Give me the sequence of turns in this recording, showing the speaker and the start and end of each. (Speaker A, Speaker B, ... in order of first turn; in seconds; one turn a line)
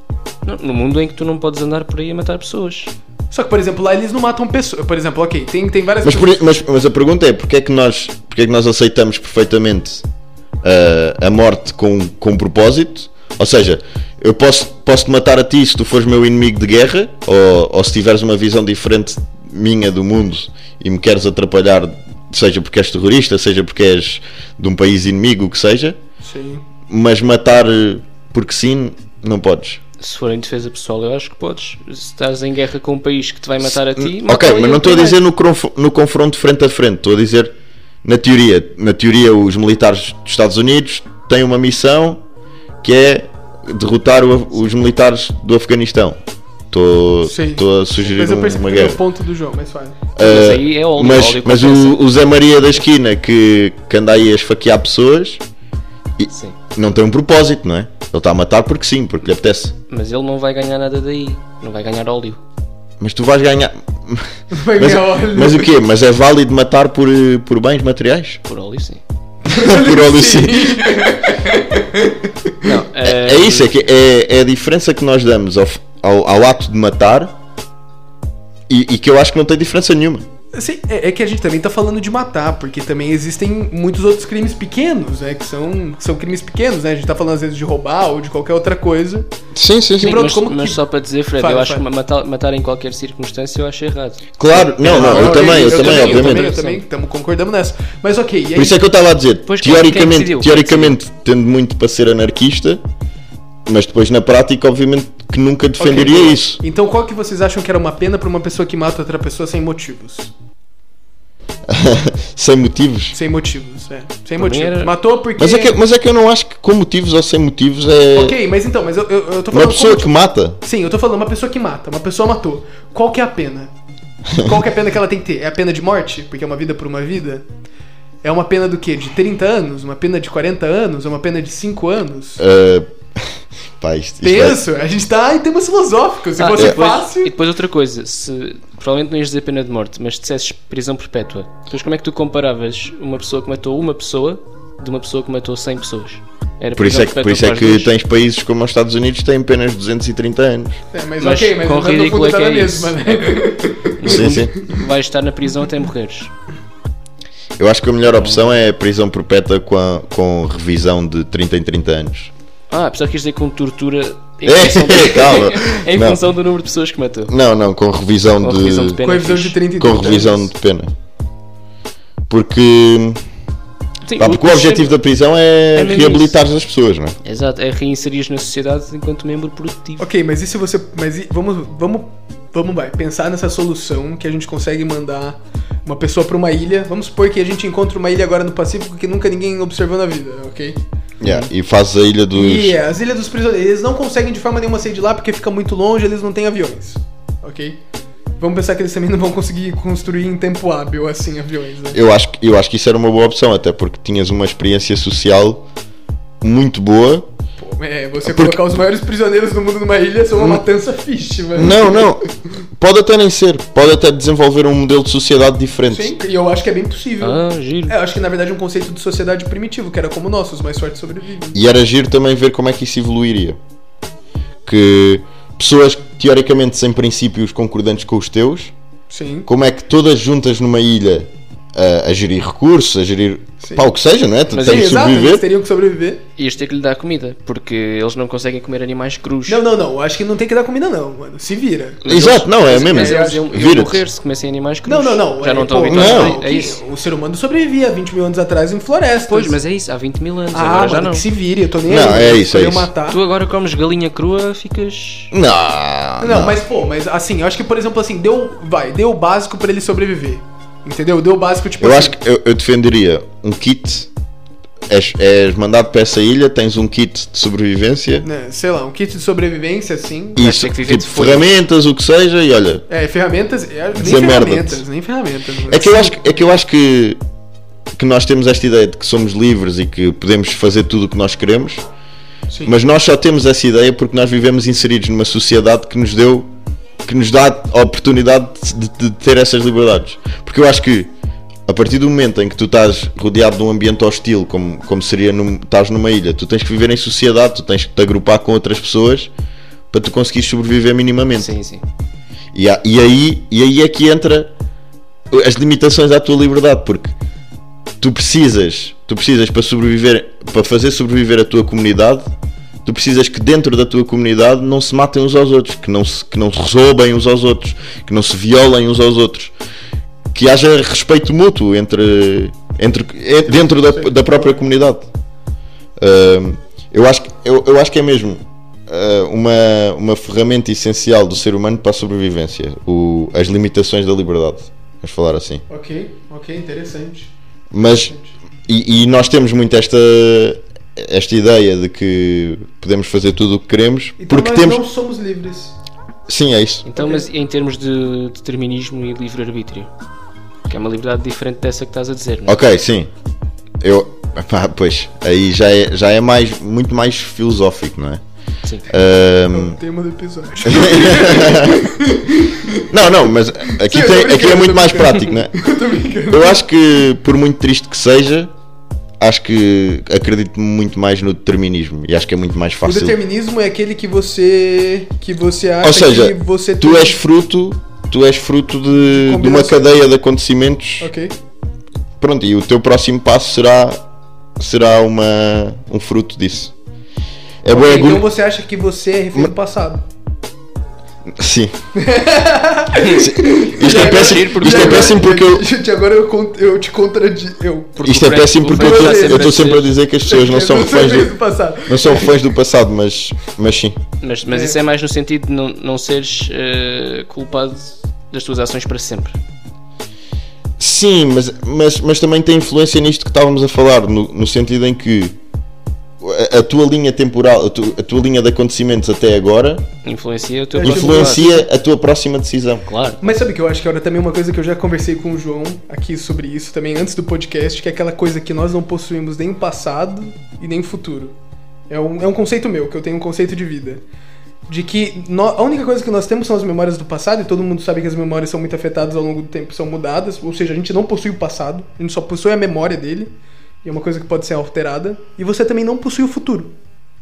Speaker A: 0.4-2.9
Speaker B: 3.3-6.5
Speaker C: 6.0-10.1
Speaker C: 10.6-26.0
Speaker B: 26.2-26.6
Speaker C: 26.9-29.8
Speaker A: 30.0-35.2
Speaker C: 34.0-42.2
Speaker C: 42.8-46.2
Speaker C: 46.7-49.0
Speaker B: 47.2-50.0
Speaker C: 50.2-55.4
Speaker A: 50.2-52.0
Speaker C: 56.2-59.7
Speaker A: 59.9-62.4
Speaker C: 63.0-68.4
Speaker B: 64.5-65.7
Speaker A: 68.5-69.0
Speaker B: 69.5-72.2
Speaker C: 69.5-70.9
Speaker A: 72.6-73.8
Speaker C: 73.0-77.3
Speaker C: 78.7-80.3
Speaker B: 80.5-89.3
Speaker C: 89.5-90.2
Speaker B: 90.0-90.8
Speaker A: 90.0-96.8
Speaker B: 91.4-91.8
Speaker C: 94.4-96.5
Speaker B: 94.8-98.8
Speaker C: 98.6-102.8
Speaker A: 99.5-101.0
Speaker C: 103.7-106.6
Speaker B: 105.8-110.3
Speaker C: 111.7-113.2
Speaker B: 113.1-115.8
Speaker A: 114.4-114.9
Speaker C: 115.4-118.4
Speaker B: 118.1-123.7
Speaker C: 119.5-120.6
Speaker B: 124.4-127.5
Speaker B: 128.2-132.4
Speaker C: 132.4-134.6
Speaker B: 134.2-137.3
Speaker A: 136.4-147.9
Speaker C: 146.8-150.8
Speaker B: 150.9-154.6
Speaker A: 151.2-153.2
Speaker A: 154.0-156.3
Speaker C: 154.1-154.5
Speaker C: 157.6-162.3
Speaker A: 158.2-158.5
Speaker A: 162.7-167.3
Speaker C: 164.5-166.2
Speaker C: 167.3-169.0
Speaker A: 168.4-169.6
Speaker B: 169.0-170.5
Speaker C: 169.8-170.9
Speaker C: 172.3-173.2
Speaker A: 174.1-175.0
Speaker C: 174.2-177.2
Speaker A: 175.8-176.4
Speaker A: 177.2-180.1
Speaker B: 180.0-190.8
Speaker C: 191.2-192.8
Speaker A: 191.2-191.5
Speaker B: 192.3-197.8
Speaker B: 198.4-202.0
Speaker C: 201.9-205.7
Speaker C: 206.4-207.3
Speaker B: 207.6-212.2
Speaker C: 208.2-208.6
Speaker C: 211.6-212.2
Speaker C: 212.8-216.2
Speaker B: 215.9-221.6
Speaker A: 217.2-217.9
Speaker C: 221.5-223.6
Speaker C: 224.7-228.7
Speaker B: 229.1-229.5
Speaker C: 229.5-235.4
Speaker B: 233.6-233.9
Speaker A: 234.5-235.0
Speaker B: 234.6-236.2
Speaker A: 236.4-239.6
Speaker B: 239.5-242.0
Speaker A: 242.1-246.8
Speaker C: 242.1-244.0
Speaker B: 242.7-243.4
Speaker B: 244.8-249.6
Speaker C: 245.9-246.4
Speaker A: 249.3-251.3
Speaker B: 250.5-253.2
Speaker C: 251.8-252.9
Speaker A: 253.1-255.3
Speaker C: 255.3-256.6
Speaker B: 256.2-262.1
Speaker C: 261.8-264.1
Speaker C: 264.9-268.3
Speaker B: 268.2-270.5
Speaker C: 270.4-272.8
Speaker A: 270.4-271.5
Speaker B: 272.9-276.4
Speaker C: 273.9-274.8
Speaker C: 275.7-277.2
Speaker C: 278.0-281.8
Speaker C: 282.7-286.5
Speaker C: 287.0-291.1
Speaker C: 291.7-299.3
Speaker C: 299.9-301.5
Speaker A: 301.4-301.8
Speaker C: 302.5-304.5
Speaker C: 305.3-307.1
Speaker C: 308.0-312.3
Speaker C: 312.9-319.5
Speaker C: 320.3-325.1
Speaker B: 323.8-324.6
Speaker C: 326.0-335.6
Speaker B: 335.7-337.3
Speaker C: 337.7-338.1
Speaker B: 337.9-338.3
Speaker C: 338.7-344.8
Speaker B: 344.2-345.8
Speaker C: 346.3-346.9
Speaker A: 346.9-349.9
Speaker B: 347.0-347.3
Speaker A: 350.7-352.6
Speaker C: 352.5-353.1
Speaker C: 353.8-358.2
Speaker C: 358.9-359.8
Speaker B: 359.5-366.6
Speaker C: 360.6-361.9
Speaker C: 362.9-365.5
Speaker C: 366.3-368.5
Speaker C: 369.2-373.2
Speaker B: 372.8-377.2
Speaker C: 375.8-381.1
Speaker B: 378.9-379.9
Speaker B: 381.0-381.3
Speaker C: 382.2-384.0
Speaker C: 384.6-386.7
Speaker C: 387.6-388.3
Speaker B: 387.7-390.1
Speaker C: 391.3-391.7
Speaker B: 391.9-398.0
Speaker A: 393.0-393.2
Speaker C: 393.1-395.7
Speaker A: 393.8-395.2
Speaker A: 398.0-399.9
Speaker C: 398.0-401.3
Speaker B: 398.7-402.4
Speaker C: 401.9-404.0
Speaker A: 404.2-409.4
Speaker B: 404.5-404.8
Speaker C: 410.8-415.4
Speaker C: 416.2-419.9
Speaker A: 420.0-421.5
Speaker B: 420.8-421.6
Speaker C: 420.8-422.9
Speaker A: 422.9-423.2
Speaker B: 423.2-431.4
Speaker B: 431.9-434.0
Speaker B: 434.7-446.7